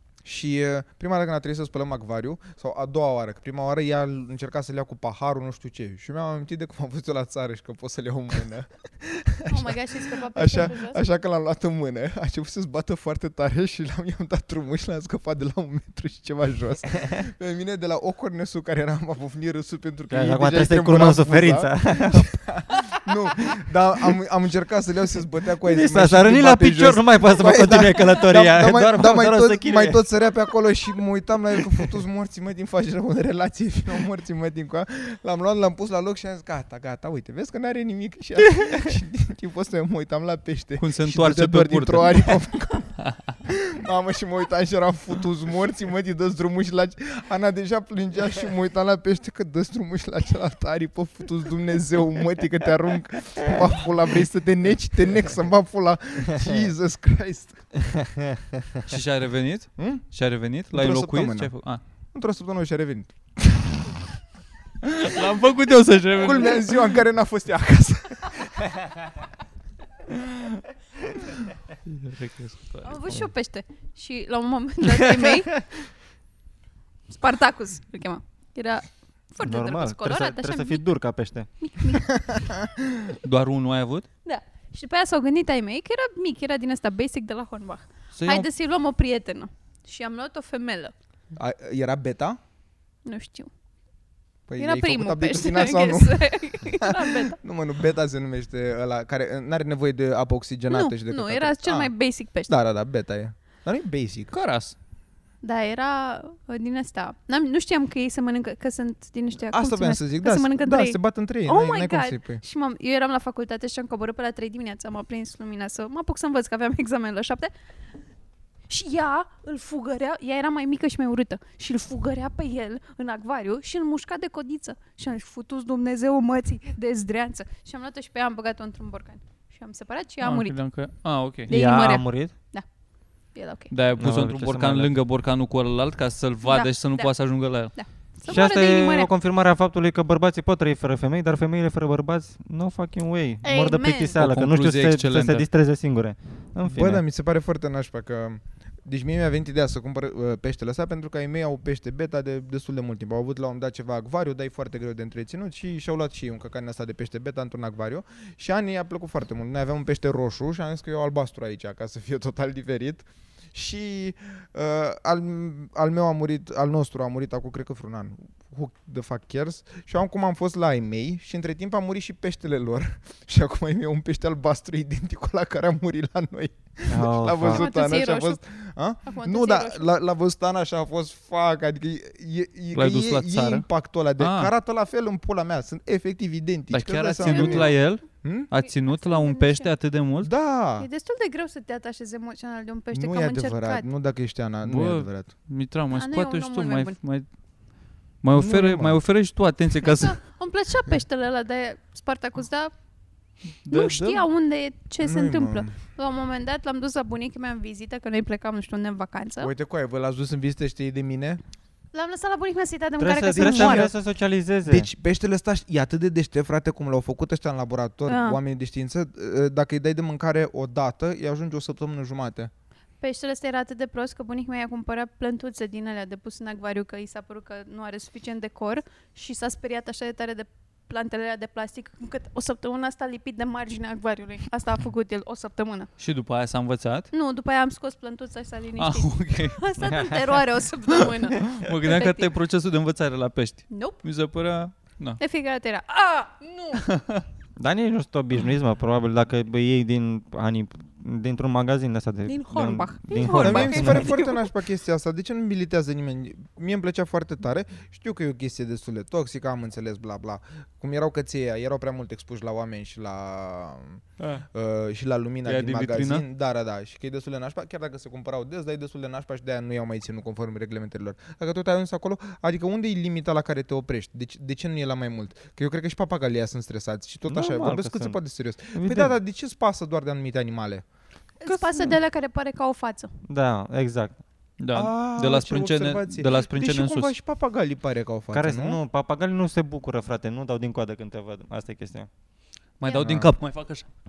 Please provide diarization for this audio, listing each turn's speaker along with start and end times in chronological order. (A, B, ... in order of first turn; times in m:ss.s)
0:00.2-0:57.7 A
0:09.5-0:11.0 B
0:20.1-0:22.3 C
0:25.6-0:30.0 C
0:40.8-0:42.4 D
0:58.0-0:58.8 C
0:58.9-1:01.8 D
0:59.8-1:00.0 A
1:00.7-1:01.6 A
1:02.1-1:03.8 A
1:04.8-1:07.0 D
1:06.1-1:08.7 A
1:11.9-1:13.0 D
1:12.8-1:15.6 B
1:17.1-1:20.8 B
1:19.4-1:21.5 C
1:21.6-1:22.5 B
1:23.2-1:24.1 D
1:24.2-1:30.9 B
1:28.1-1:28.5 D
1:31.4-1:32.4 A
1:33.0-1:33.5 B
1:34.5-1:44.3 A
1:34.6-1:37.4 B
1:40.7-1:42.5 B
1:44.3-1:44.8 D
1:45.4-1:57.5 B
1:49.5-1:52.4 A
1:58.7-2:10.6 B
2:10.2-2:11.5 D
2:11.5-2:12.7 B
2:11.5-2:12.3 C
2:13.3-2:13.7 B
2:13.7-2:17.7 D
2:14.0-2:14.9 C
2:16.4-2:19.1 B
2:18.2-2:27.0 C
2:23.4-2:24.2 B
2:24.2-2:25.5 D
2:26.6-3:08.5 A
2:56.9-2:57.7 C
2:57.5-2:58.4 B
2:59.0-2:59.9 B
3:02.7-3:03.7 D
3:04.2-3:04.5 D
3:06.7-3:10.3 D
3:07.2-3:07.8 B
3:08.6-3:09.7 B
3:10.2-3:10.9 A
3:10.8-3:13.9 B
3:12.9-3:15.3 A
3:14.6-3:17.3 D
3:15.9-3:17.0 B
3:18.2-3:20.2 D
3:18.3-3:19.0 A
3:19.8-3:22.7 B
3:23.7-3:24.2 D
3:23.7-3:29.5 B
3:25.0-3:25.7 A
3:29.4-3:31.4 A
3:31.9-3:33.9 B
3:33.0-3:34.9 C
3:33.4-3:33.9 A
3:34.7-3:42.5 A
3:38.1-3:38.4 B
3:43.0-3:55.9 B
3:56.0-3:57.1 D
3:57.1-4:02.3 B
3:58.8-3:59.6 D
4:01.5-4:05.2 D
4:03.7-4:04.0 B
4:05.2-4:06.8 B
4:06.8-4:07.2 D
4:07.6-4:14.1 C
4:12.3-4:14.5 B
4:13.4-4:40.8 A
4:24.2-4:24.4 D
4:25.4-4:26.2 D
4:37.3-4:38.2 C
4:38.7-4:39.2 C
4:41.4-4:43.1 B
4:41.5-4:42.0 C
4:43.3-4:44.2 C
4:44.6-4:47.1 D
4:44.7-4:48.8 A
4:48.3-4:52.1 C
4:52.8-4:53.9 D
4:53.0-4:53.3 A